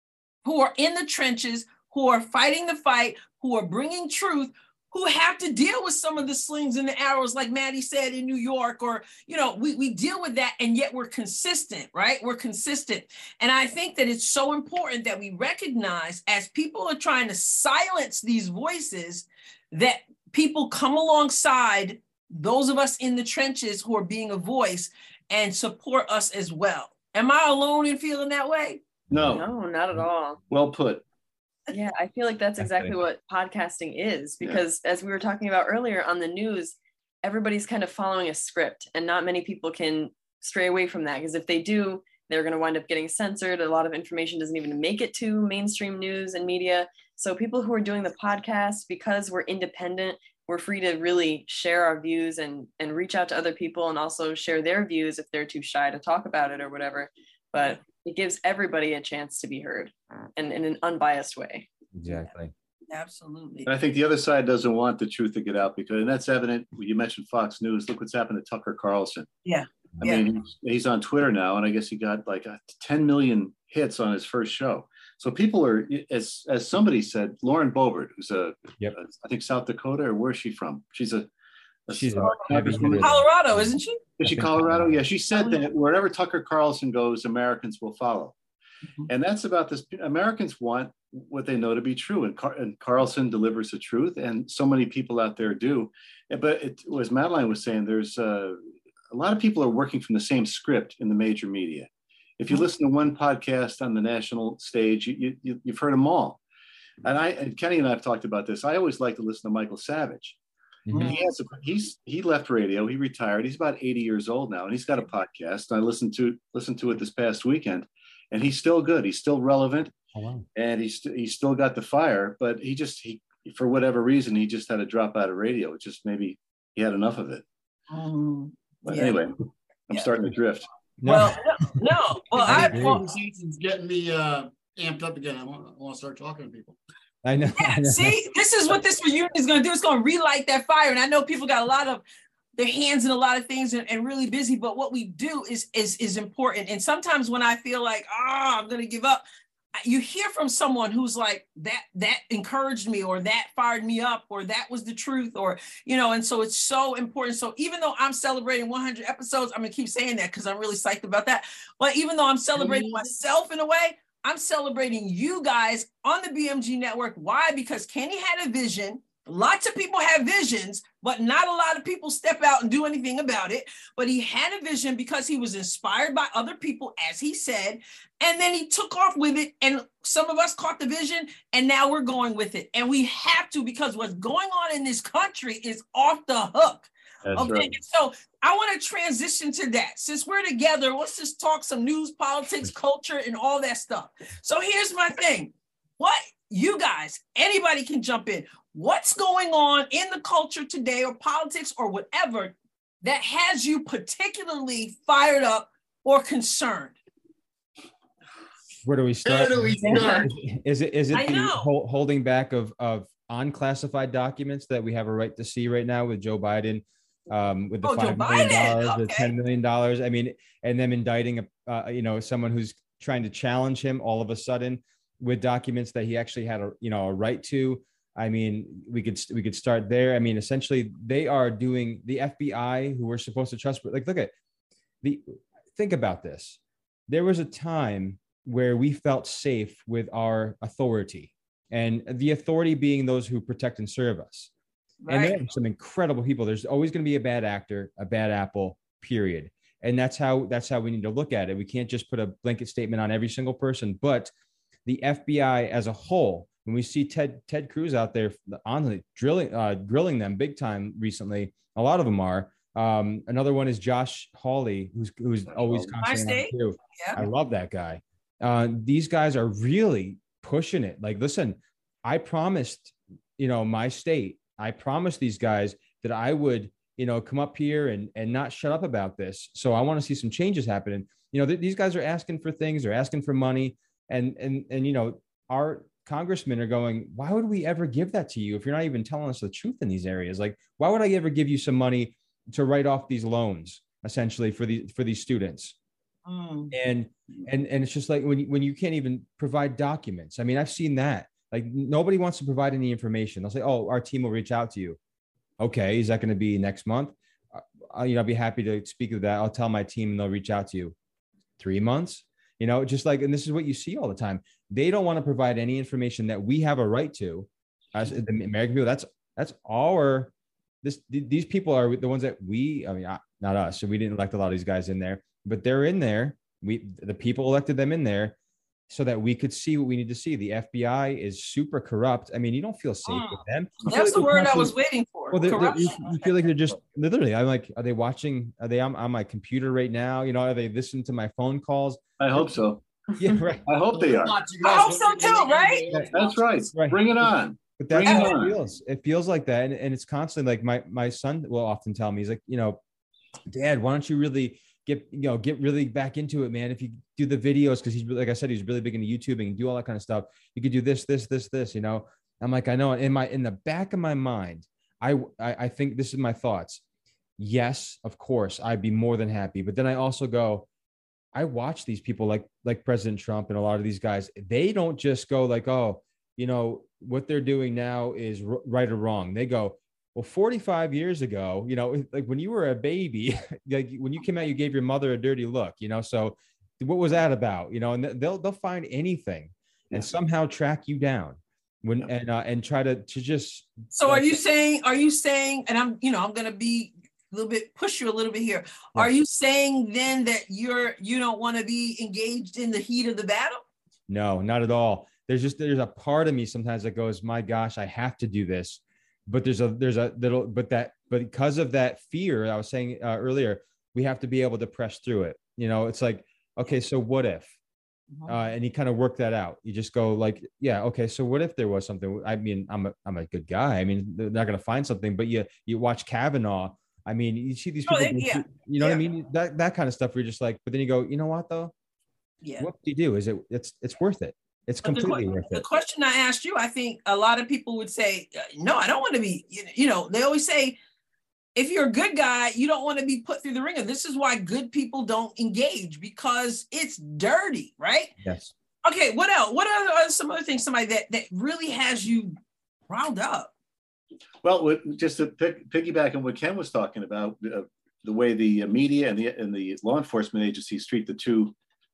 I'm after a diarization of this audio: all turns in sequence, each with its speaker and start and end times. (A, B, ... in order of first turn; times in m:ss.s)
0:00.4-0:28.8 A
0:29.1-0:29.4 B
0:29.2-0:30.4 C
0:30.5-0:31.0 B
0:31.7-1:01.7 C
0:32.6-0:32.9 D
1:01.9-1:02.5 D
1:02.9-1:03.7 A
1:03.6-1:09.3 B
1:09.4-1:10.3 A
1:10.0-1:21.3 B
1:21.9-1:23.2 B
1:21.9-1:25.0 D
1:22.2-1:24.0 A
1:24.2-1:28.4 B
1:25.3-1:25.6 A
1:29.1-1:38.6 B
1:39.1-1:46.4 B
1:47.0-1:50.4 B
1:50.9-1:51.2 D
1:50.9-1:59.9 B
1:51.0-1:51.2 A
2:00.1-2:00.4 D
2:00.5-2:07.4 B
2:07.9-2:09.2 A
2:08.8-2:10.7 B
2:11.0-2:11.7 D
2:11.0-2:13.1 A
2:12.4-2:13.0 D
2:12.4-2:16.8 E
2:17.2-2:18.2 D
2:17.6-2:22.0 A
2:22.6-2:29.2 A
2:29.8-3:26.9 A
3:07.2-3:07.8 B
3:28.8-3:54.3 D
3:29.2-3:30.3 E
3:29.8-3:30.3 A
3:31.1-3:31.7 A
3:37.8-3:39.3 A
3:55.0-4:04.5 D
4:05.0-4:05.4 A
4:05.1-4:14.3 D
4:14.8-4:55.7 D
4:25.5-4:25.9 B
4:26.0-4:27.2 A
4:56.2-4:56.7 A
4:56.7-5:05.0 D
5:05.6-5:10.9 D
5:11.6-5:20.3 D
5:20.8-5:28.3 D
5:28.9-5:34.7 D
5:33.0-5:36.4 A
5:35.3-5:42.5 D
5:42.2-5:42.8 B
5:43.2-5:43.6 D
5:43.6-5:44.4 B
5:43.9-5:46.5 E
5:44.6-5:45.9 A
5:45.9-5:48.6 B
5:46.7-5:52.8 D
5:48.0-5:48.3 A
5:53.5-6:06.8 D
6:07.4-6:10.7 D
6:11.3-6:34.4 D
6:33.9-6:43.6 A
6:44.1-6:57.5 D
6:58.3-7:11.7 D
7:07.8-7:09.0 A
7:12.4-7:12.7 A
7:12.6-7:15.6 D
7:14.8-7:20.8 A
7:21.6-7:28.1 A
7:28.2-7:28.5 D
7:28.8-7:32.4 A
7:32.9-7:33.5 A
7:34.4-7:41.5 B